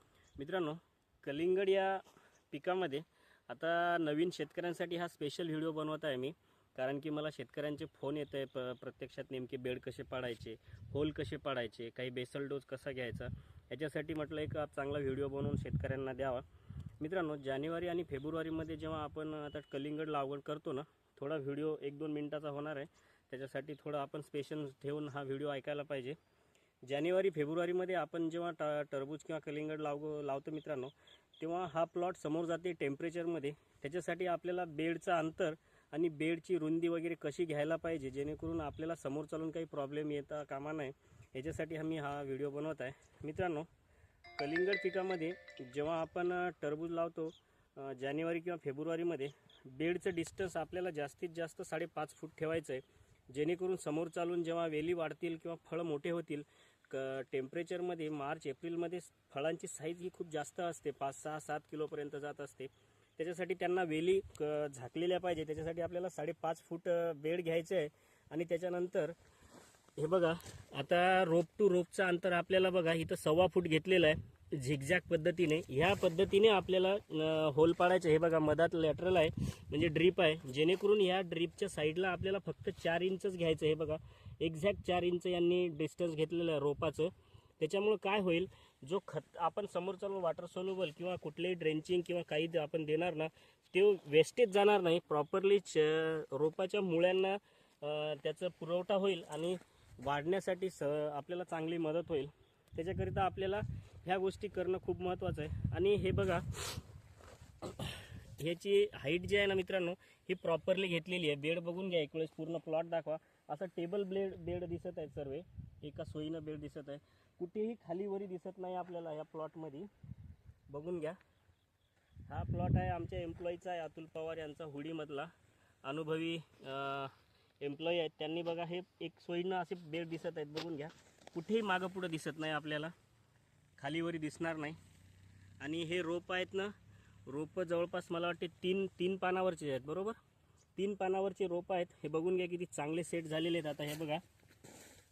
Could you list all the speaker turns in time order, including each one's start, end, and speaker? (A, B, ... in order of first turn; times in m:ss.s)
0:00.4-0:16.4 A
0:17.0-0:26.2 A
0:26.9-0:43.7 A
0:44.4-1:09.2 A
1:10.0-1:46.8 A
1:47.6-1:59.9 A
2:00.7-2:01.2 A
2:02.3-2:05.3 A
2:05.8-2:12.9 A
2:13.8-2:14.8 A
2:15.6-2:16.7 A
2:17.3-2:20.2 A
2:20.8-2:24.2 A